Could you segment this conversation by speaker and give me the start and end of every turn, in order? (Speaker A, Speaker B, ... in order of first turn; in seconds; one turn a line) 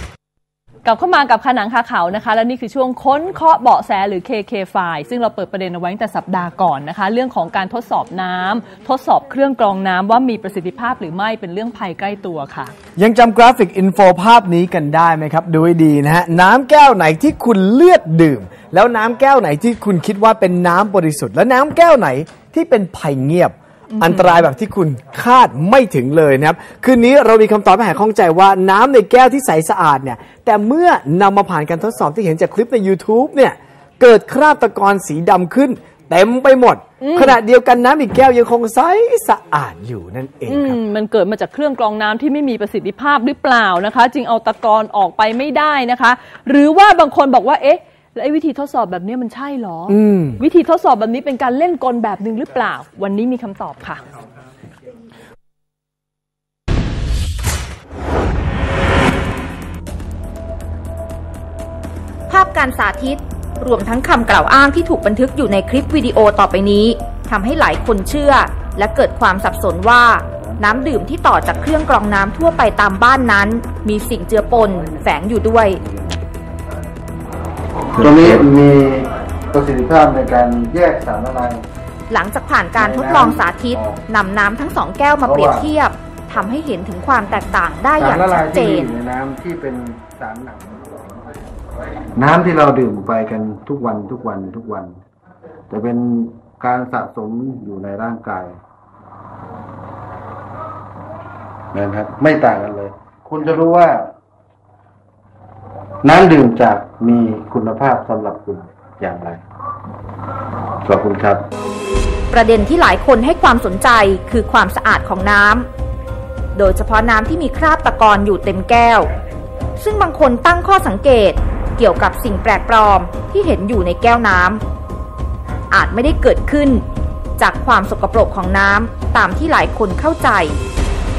Speaker A: 0.8-12.7
Speaker B: 13.0-40.8
Speaker A: 23.9-24.3
Speaker A: 37.0-37.4
Speaker A: 40.5-54.0
Speaker B: 49.9-50.4
Speaker C: 62.3-75.8
Speaker D: 75.8-76.2
Speaker D: 78.0-81.6
Speaker C: 82.1-88.9
Speaker D: 82.8-84.0
Speaker D: 85.2-85.7
Speaker D: 88.0-90.8
Speaker D: 92.2-95.0
Speaker D: 95.7-98.6
Speaker D: 101.7-104.1
Speaker D: 106.0-109.4
Speaker D: 110.8-111.4
Speaker C: 112.3-115.7
Speaker C: 116.5-119.1
Speaker C: 119.8-124.6
Speaker C: 125.7-126.8
Speaker C: 127.4-130.6